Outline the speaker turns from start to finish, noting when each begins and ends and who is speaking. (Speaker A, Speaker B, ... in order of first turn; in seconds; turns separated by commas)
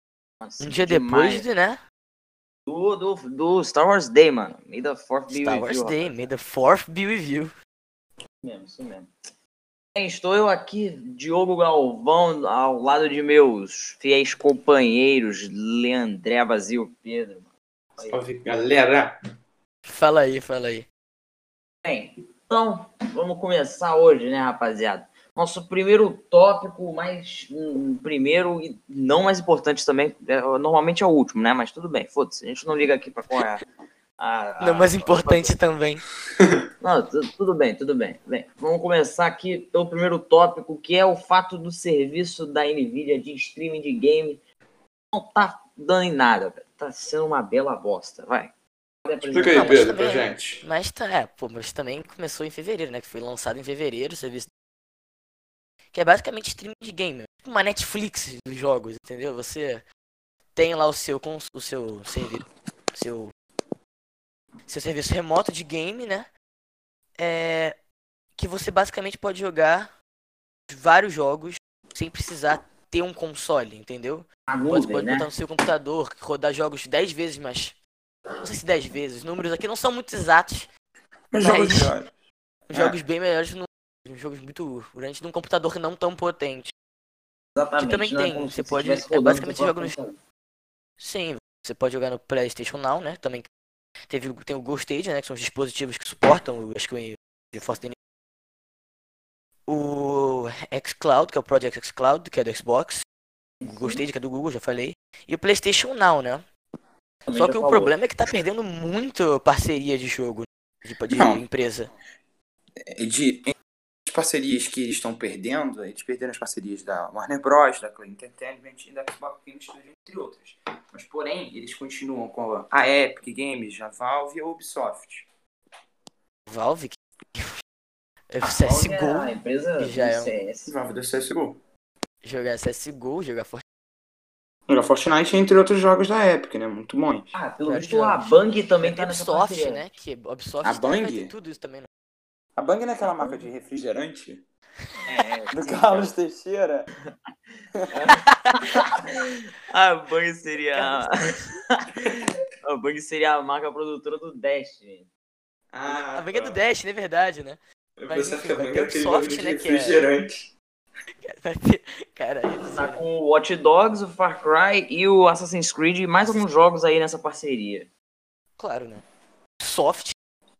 Speaker A: 0.4-1.4, Speaker B: 0.6-1.8, Speaker A: 2.7-6.2, Speaker B: 5.3-7.5, Speaker A: 8.4-9.1, Speaker A: 9.9-18.2, Speaker C: 18.0-19.1, Speaker B: 19.9-20.9, Speaker A: 21.8-33.6, Speaker A: 34.2-35.5, Speaker B: 34.6-36.0, Speaker A: 36.8-44.4, Speaker A: 45.1-48.5, Speaker A: 49.0-50.0, Speaker C: 49.2-50.6, Speaker B: 49.4-54.5, Speaker B: 55.9-59.8, Speaker B: 60.5-63.3, Speaker B: 64.7-66.3, Speaker B: 67.2-67.7, Speaker B: 68.3-69.9, Speaker B: 70.7-77.8, Speaker A: 74.5-75.3, Speaker B: 78.4-80.7, Speaker C: 81.3-82.1, Speaker B: 81.4-81.9, Speaker B: 82.7-86.7, Speaker A: 87.5-90.2, Speaker B: 87.8-89.9, Speaker B: 91.0-93.5, Speaker B: 94.1-97.9, Speaker B: 99.7-103.0, Speaker A: 103.6-104.0, Speaker B: 103.6-106.4, Speaker A: 107.3-107.9, Speaker B: 107.3-111.9, Speaker C: 111.1-111.4, Speaker C: 112.9-113.5, Speaker C: 114.1-125.3, Speaker B: 126.5-127.5, Speaker B: 128.3-130.3, Speaker A: 128.4-130.7, Speaker C: 130.6-131.6, Speaker B: 132.2-133.6, Speaker C: 134.7-137.3, Speaker A: 137.3-139.8, Speaker B: 137.7-141.9, Speaker C: 140.6-141.3, Speaker C: 142.6-144.4, Speaker A: 143.2-143.5, Speaker A: 145.1-146.1, Speaker C: 145.5-146.9, Speaker A: 147.9-155.1, Speaker B: 150.8-151.5, Speaker C: 155.7-156.6, Speaker B: 155.8-160.1, Speaker C: 158.0-160.5, Speaker B: 161.3-163.0, Speaker A: 162.6-167.9, Speaker B: 168.6-169.0, Speaker B: 169.6-170.1